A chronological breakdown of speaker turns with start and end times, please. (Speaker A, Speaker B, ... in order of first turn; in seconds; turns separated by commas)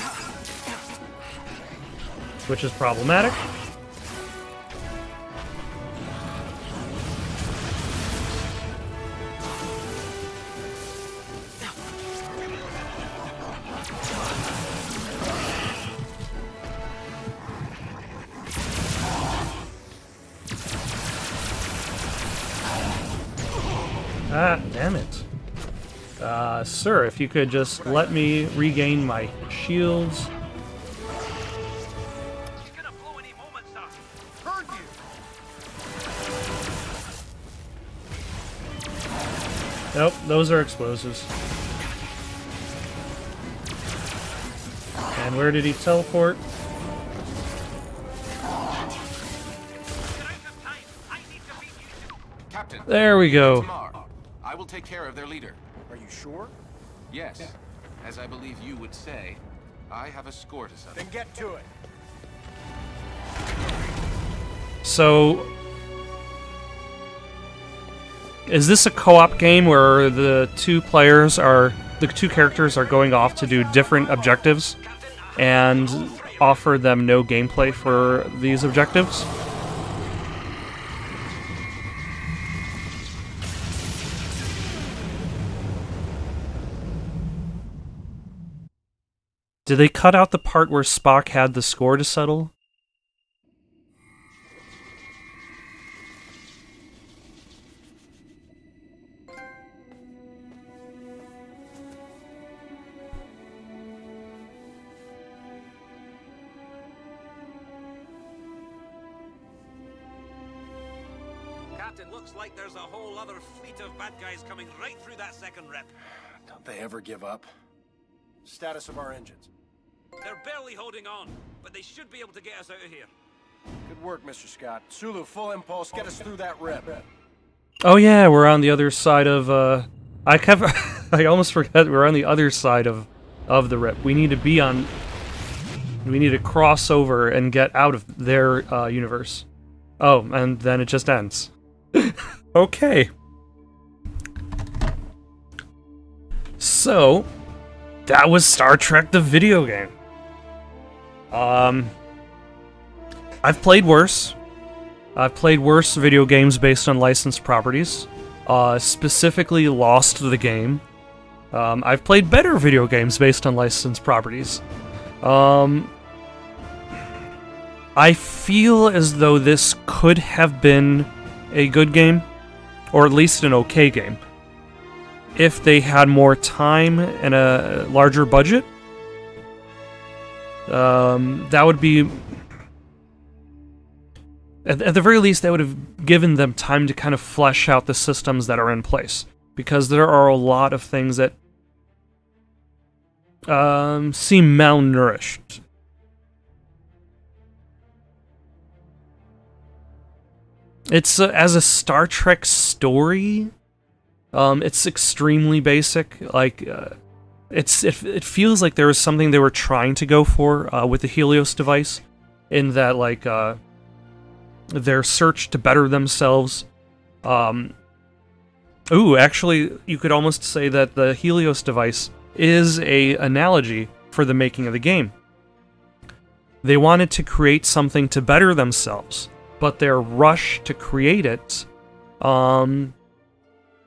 Speaker A: 2.5-3.4, Speaker A: 24.3-25.3, Speaker A: 26.2-30.3, Speaker B: 27.8-28.3, Speaker C: 32.6-34.0, Speaker B: 34.4-35.0, Speaker A: 39.9-41.3, Speaker A: 45.1-46.4, Speaker C: 50.0-52.2, Speaker D: 52.5-55.6, Speaker A: 52.9-53.7, Speaker B: 55.9-56.5, Speaker D: 57.1-61.1, Speaker B: 60.9-61.7, Speaker A: 64.8-65.5, Speaker A: 68.5-74.8, Speaker C: 72.3-76.8, Speaker A: 75.3-79.3, Speaker C: 77.6-78.4, Speaker A: 89.7-92.5, Speaker C: 111.7-115.9, Speaker B: 116.5-117.5, Speaker B: 118.4-119.5, Speaker C: 120.2-123.1, Speaker B: 123.8-127.0, Speaker A: 127.8-134.9, Speaker A: 136.0-139.4, Speaker A: 140.0-143.1, Speaker A: 146.6-147.3, Speaker A: 148.1-149.9, Speaker A: 151.3-151.9, Speaker A: 153.4-154.3, Speaker A: 155.1-160.8, Speaker A: 161.5-164.6, Speaker A: 165.2-165.9, Speaker A: 167.9-172.2, Speaker A: 172.9-174.2, Speaker A: 175.3-178.7, Speaker A: 180.7-182.4, Speaker A: 184.6-191.4, Speaker A: 193.5-195.6, Speaker A: 200.9-203.5, Speaker A: 204.3-206.9, Speaker A: 207.5-213.6, Speaker A: 214.7-216.7, Speaker A: 217.2-217.8, Speaker A: 218.9-225.1, Speaker A: 226.6-231.7, Speaker A: 232.2-232.9